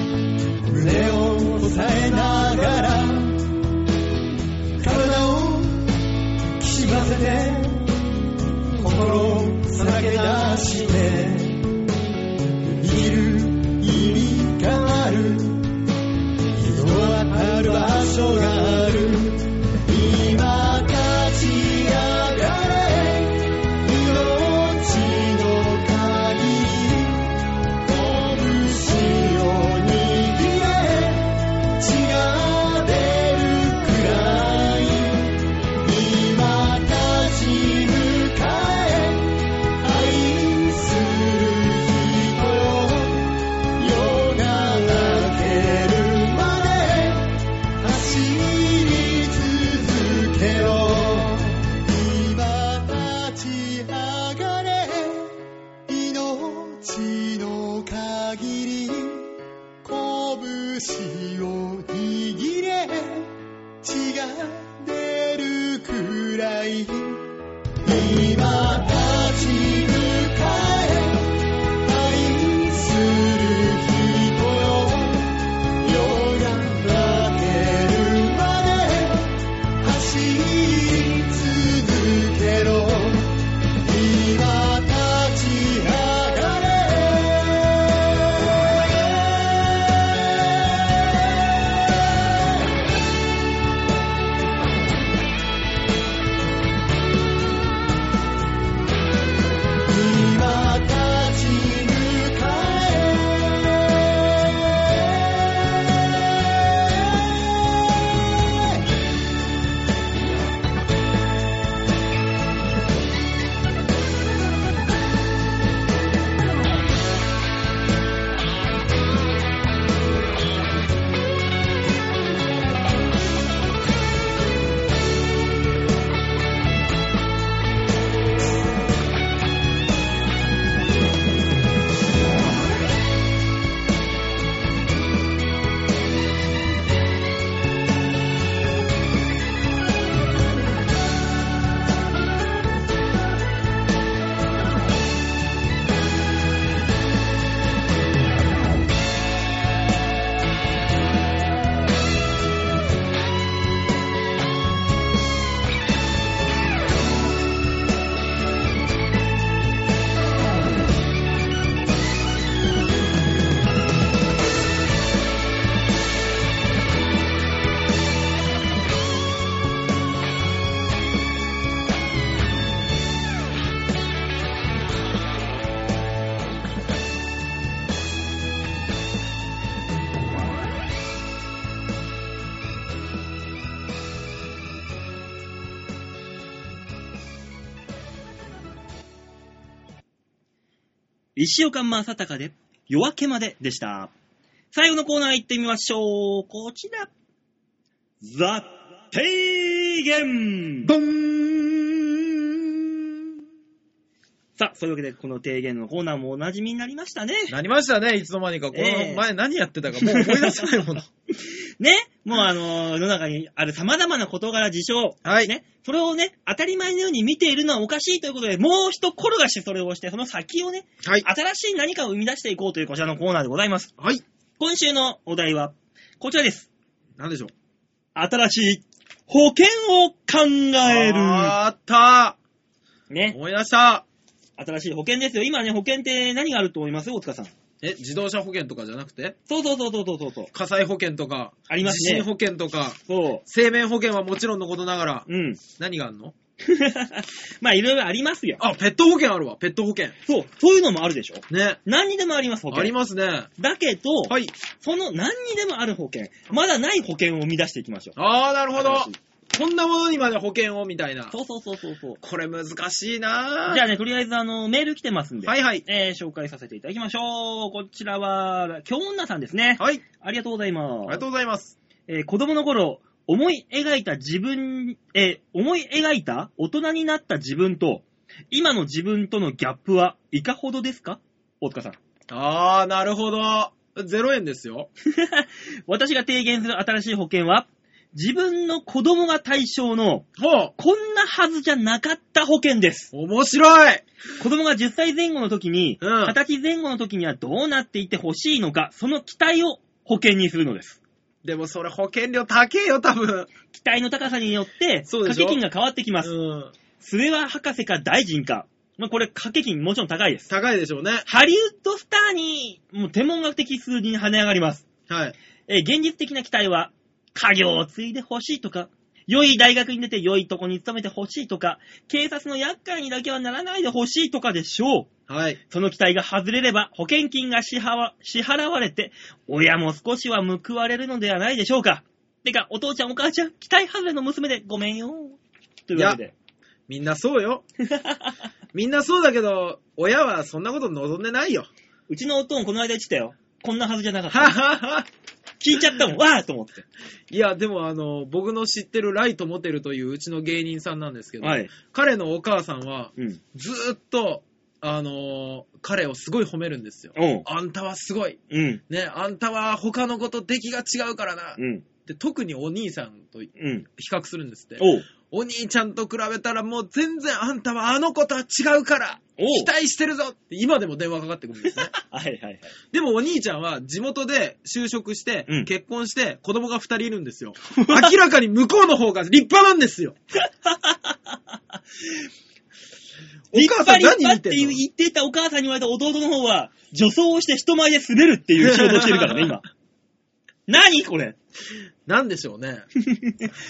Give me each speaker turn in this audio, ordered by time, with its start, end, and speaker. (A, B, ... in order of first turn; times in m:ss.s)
0:00.7-0:03.5 A
0:04.8-0:05.9 A
0:06.6-0:07.9 A
0:08.8-0:11.6 A
0:12.7-0:15.7 A
0:16.5-1:03.3 A
1:03.8-1:07.3 A
1:07.8-1:28.4 A
1:29.8-1:30.1 A
1:39.9-1:48.4 A
3:11.4-3:14.1 B
3:14.7-3:17.1 B
3:18.2-3:20.9 B
3:20.9-3:23.1 C
3:24.6-3:27.6 B
3:27.5-3:31.1 C
3:28.7-3:29.2 B
3:30.0-3:30.7 B
3:31.3-3:43.9 B
3:35.2-3:35.5 C
3:44.6-3:46.7 B
3:47.2-3:47.5 C
3:48.2-3:51.6 B
3:50.8-3:52.4 C
3:53.1-3:53.4 B
3:53.3-3:54.0 C
3:54.6-3:57.5 B
3:57.8-3:59.4 C
3:59.5-4:00.5 B
4:00.5-4:06.3 C
4:01.7-4:02.3 B
4:03.1-4:03.4 B
4:05.3-4:05.6 B
4:06.6-4:08.6 B
4:08.6-4:10.2 C
4:10.3-4:12.9 B
4:11.5-4:11.8 C
4:12.7-4:13.5 C
4:13.6-4:18.2 B
4:14.3-4:14.5 C
4:18.2-4:21.3 C
4:18.8-4:19.2 B
4:21.3-4:22.2 B
4:22.2-4:23.8 C
4:23.7-4:31.2 B
4:25.4-4:25.8 C
4:29.8-4:30.0 C
4:31.1-4:31.8 C
4:32.1-4:42.0 B
4:42.3-4:44.9 C
4:45.1-4:53.1 B
4:50.4-4:50.7 C
4:53.1-4:54.0 C
4:54.4-5:01.0 B
4:56.0-4:56.4 C
5:01.4-5:03.5 C
5:03.7-5:06.3 B
5:05.1-5:05.6 C
5:06.2-5:06.7 C
5:07.0-5:10.5 B
5:10.5-5:11.3 C
5:11.3-5:14.9 B
5:15.1-5:15.4 C
5:15.7-5:25.1 B
5:25.3-5:25.6 C
5:25.7-5:36.3 B
5:36.9-5:37.6 C
5:37.8-5:38.4 B
5:38.7-5:41.7 C
5:42.1-5:44.6 B
5:44.3-5:45.1 C
5:45.6-5:46.8 B
5:47.3-6:11.9 C
5:51.4-5:51.7 B
5:57.2-5:57.5 B
5:58.5-5:58.8 B
6:01.6-6:01.8 B
6:03.6-6:03.9 B
6:04.8-6:05.1 B
6:09.4-6:09.7 B
6:11.9-6:12.7 B
6:12.9-6:20.2 C
6:17.8-6:18.1 B
6:20.4-6:21.5 B
6:23.5-6:24.8 C
6:23.5-6:29.7 B
6:28.6-6:29.6 C
6:30.7-6:31.4 B
6:32.1-6:32.8 C
6:33.0-6:33.6 B